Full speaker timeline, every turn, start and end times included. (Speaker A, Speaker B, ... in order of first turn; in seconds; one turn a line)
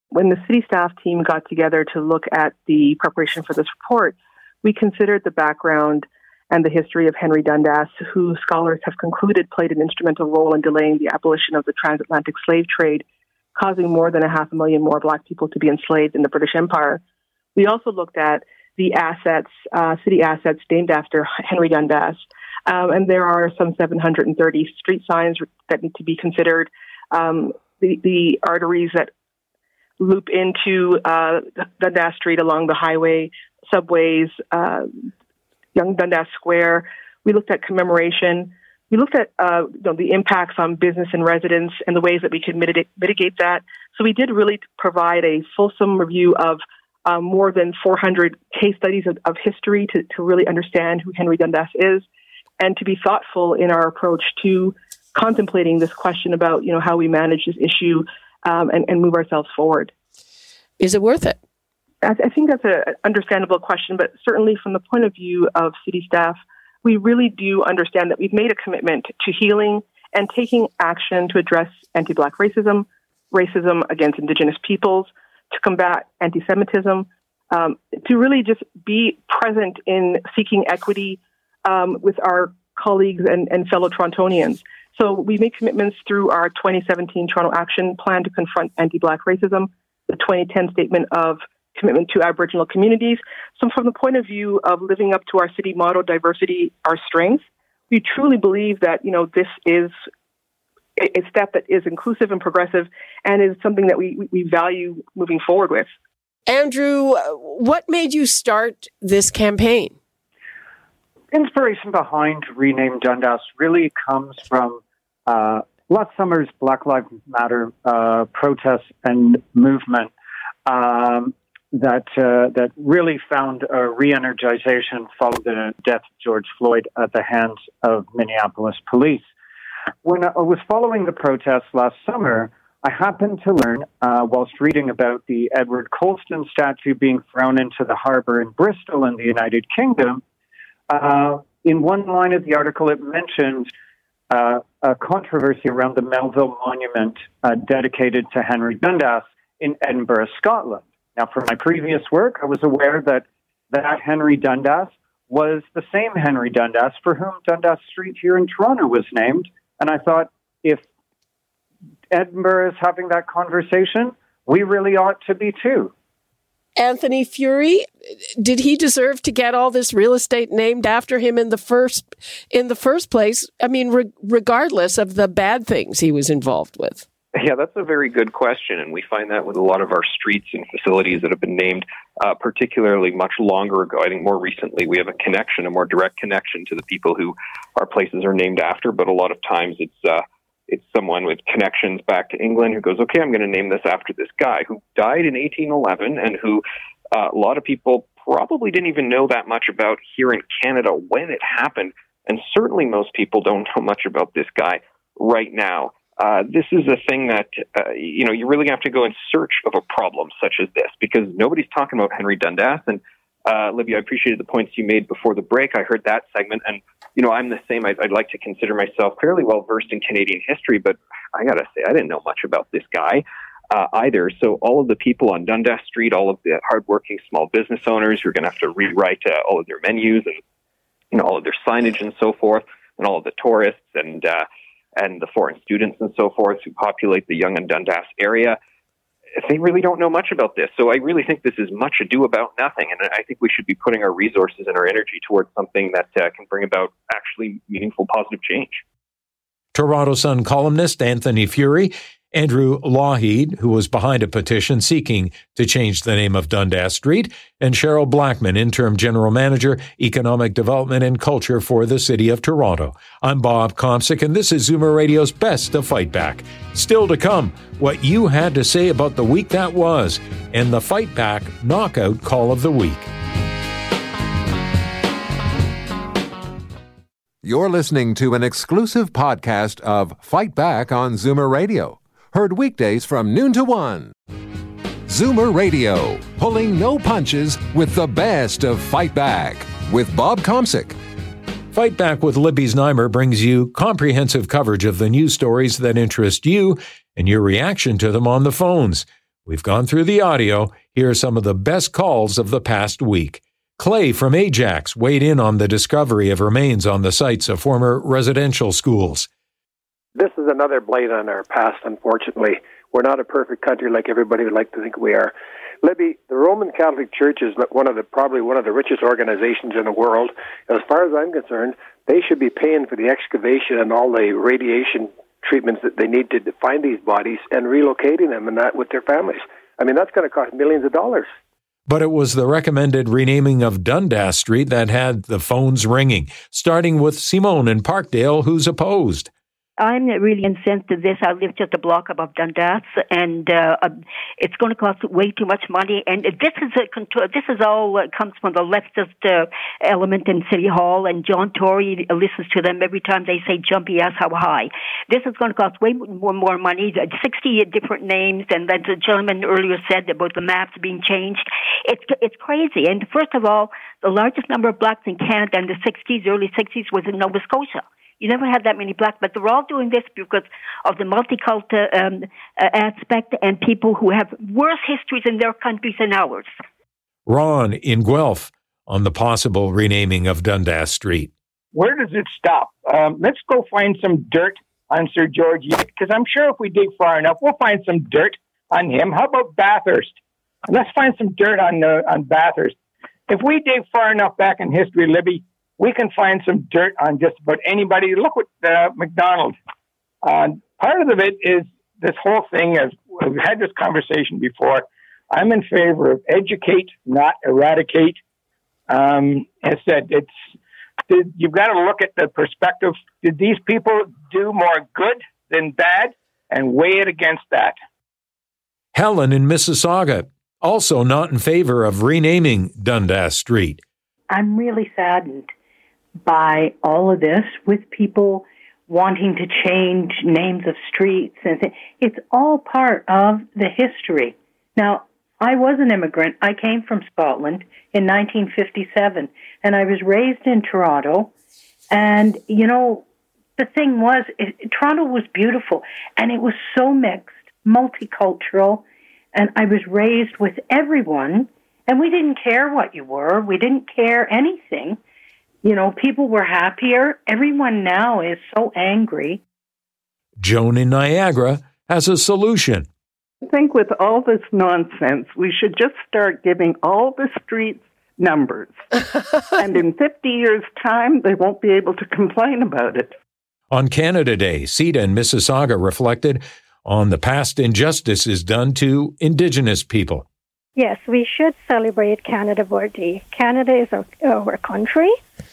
Speaker A: 0.1-17.0
Speaker A: 17.6-29.1
Speaker A: 30.0-35.1
Speaker A: 35.8-52.0
Speaker A: 52.6-59.9
Speaker B: 60.8-61.4
Speaker A: 62.0-99.9
Speaker A: 101.0-105.9
Speaker B: 106.5-110.0
Speaker C: 111.3-120.1
Speaker C: 120.7-129.3
Speaker C: 130.0-140.2
Speaker C: 140.9-143.7
Speaker C: 144.3-160.8
Speaker C: 162.1-165.9
Speaker B: 166.8-177.1
Speaker D: 177.3-196.6
Speaker D: 197.1-230.4
Speaker D: 231.1-234.4
Speaker D: 235.0-238.6
Speaker D: 239.4-248.8
Speaker E: 249.7-273.1
Speaker F: 277.4-284.1
Speaker F: 285.1-291.0
Speaker E: 291.7-309.3
Speaker G: 310.2-315.3
Speaker G: 315.8-331.3
Speaker E: 331.9-339.3
Speaker H: 339.8-376.5
Speaker E: 377.3-381.3
Speaker I: 381.7-392.8
Speaker I: 393.3-399.6
Speaker I: 400.2-408.2
Speaker I: 408.9-410.5
Speaker I: 411.1-417.8
Speaker E: 418.9-423.8
Speaker J: 424.3-425.5
Speaker J: 426.2-441.3
Speaker J: 441.9-443.1
Speaker J: 443.6-455.0
Speaker J: 455.6-459.4
Speaker E: 460.4-462.9
Speaker K: 463.4-468.9
Speaker K: 469.6-473.1
Speaker E: 473.7-480.3
Speaker L: 480.8-485.2